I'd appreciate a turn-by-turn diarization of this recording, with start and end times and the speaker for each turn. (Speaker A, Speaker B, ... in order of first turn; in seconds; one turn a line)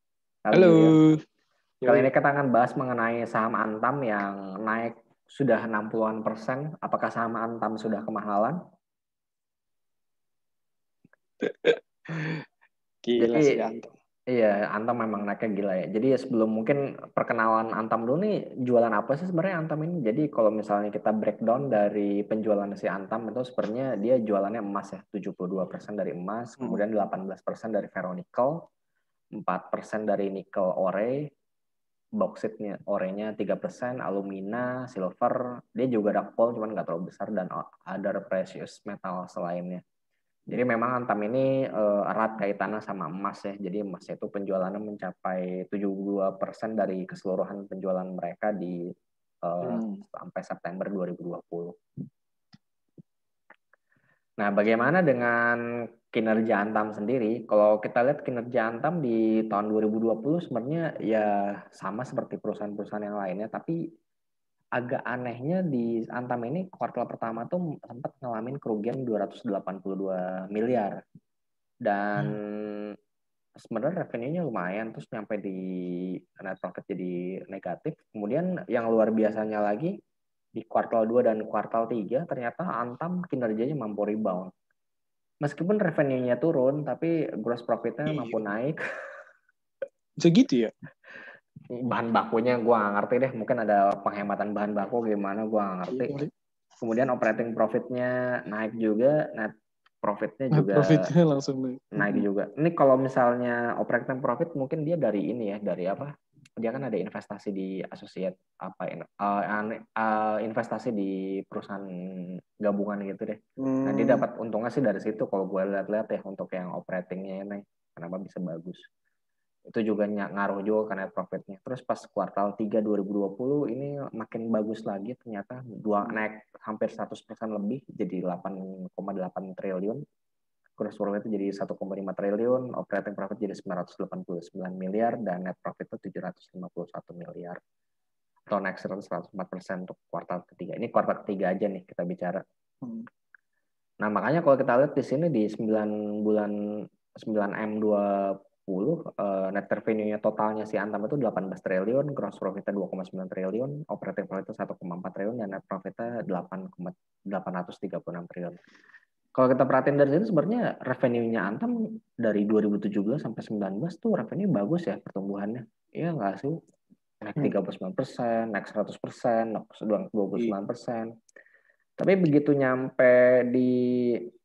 Speaker A: 0.5-0.9
Speaker B: 0.5-1.2
Speaker B: 1.8-2.1
Speaker A: 1.9-8.6
Speaker B: 11.4-12.4
Speaker B: 13.1-13.9
Speaker A: 13.2-13.7
Speaker A: 14.3-28.6
Speaker A: 29.4-31.3
Speaker A: 32.2-39.8
Speaker A: 40.5-48.8
Speaker A: 49.5-51.7
Speaker B: 49.6-50.0
Speaker A: 54.4-55.6
Speaker A: 56.1-63.8
Speaker A: 64.8-71.0
Speaker A: 71.8-73.0
Speaker A: 73.6-79.9
Speaker A: 80.6-84.5
Speaker A: 85.4-88.8
Speaker B: 88.1-88.4
Speaker B: 90.2-90.7
Speaker A: 91.8-96.2
Speaker B: 95.9-96.3
Speaker A: 96.8-101.0
Speaker B: 100.5-102.2
Speaker A: 102.0-118.8
Speaker B: 113.6-114.3
Speaker A: 119.7-130.0
Speaker A: 130.8-137.6
Speaker A: 138.5-142.4
Speaker A: 144.0-146.6
Speaker A: 147.2-158.6
Speaker A: 159.3-166.6
Speaker A: 167.2-171.1
Speaker A: 172.0-174.2